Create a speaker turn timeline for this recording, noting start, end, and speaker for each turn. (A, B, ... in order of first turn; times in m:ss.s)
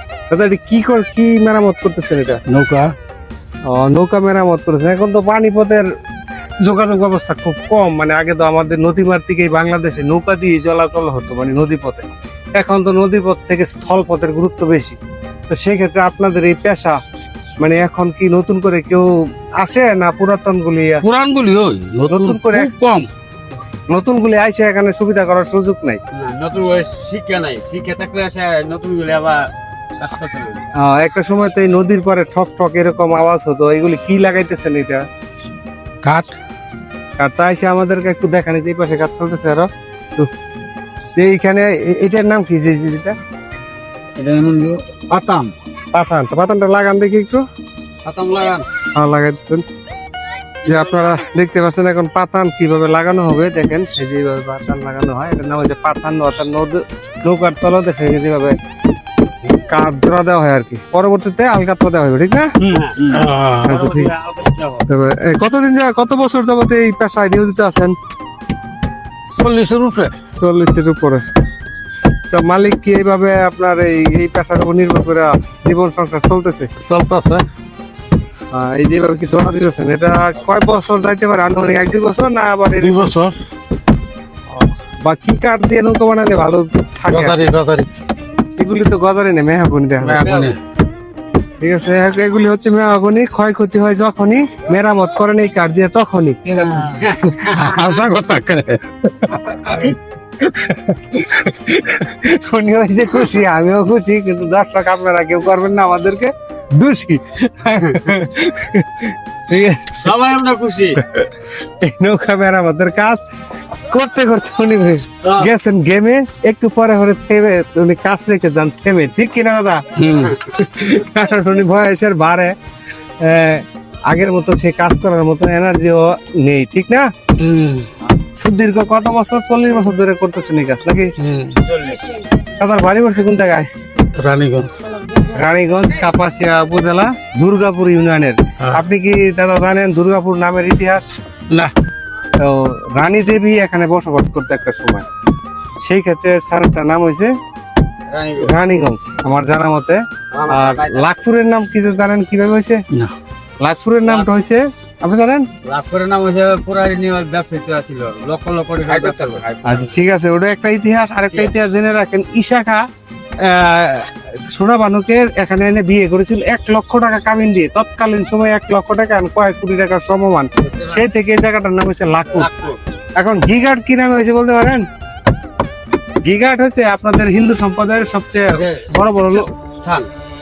0:00.3-0:02.4 A
0:02.5-0:02.9 B
0:03.7-0:05.8 A
0:06.6-0:15.0 A
0:15.5-0:17.0 A
0:17.6-0:21.1 A
0:21.0-0:23.1 B
0:22.1-0:22.7 A
0:23.9-0:26.0 A
0:26.1-0:30.6 C
0:30.8-0:35.0 A
0:36.0-0:36.4 B
0:37.2-0:40.3 A
0:41.2-0:43.2 A
0:44.2-0:45.5 C
0:45.9-0:47.4 A
0:48.0-0:48.7 C
0:49.0-0:49.6 A
0:50.6-0:58.6 A
0:59.6-1:02.5 A
1:02.6-1:03.7 B
1:02.7-1:04.8 C
1:03.6-1:04.1 A
1:04.9-1:08.0 A
1:09.3-1:10.1 B
1:10.4-1:11.2 A
1:12.3-1:16.7 A
1:16.8-1:17.4 B
1:18.5-1:23.1 A
1:22.8-1:23.4 B
1:25.0-1:27.4 A
1:27.1-1:27.9 B
1:28.6-1:30.3 A
1:30.0-1:30.6 B
1:30.2-1:30.6 C
1:31.6-1:36.4 A
1:36.5-1:39.0 B
1:36.6-1:37.6 C
1:39.3-1:50.1 A
1:50.0-1:51.0 C
1:51.1-1:53.2 A
1:53.9-1:59.8 A
1:55.2-1:55.5 C
2:00.0-2:00.4 B
2:00.4-2:02.6 A
2:03.2-2:07.1 A
2:07.4-2:07.9 B
2:08.4-2:11.1 A
2:11.2-2:11.6 B
2:11.7-2:12.1 C
2:12.6-2:13.7 A
2:14.2-2:14.8 B
2:15.3-2:21.0 A
2:22.4-2:25.0 A
2:25.8-2:27.3 A
2:28.1-2:28.5 C
2:28.4-2:32.8 A
2:30.3-2:31.1 C
2:33.6-2:35.5 A
2:34.0-2:34.3 C
2:35.6-2:40.0 C
2:38.9-2:39.5 B
2:39.6-2:42.8 A
2:43.4-2:52.5 A
2:50.6-2:51.1 C
2:52.3-2:52.8 C
2:53.2-2:54.8 A
2:56.2-2:59.5 A
2:58.5-3:00.1 C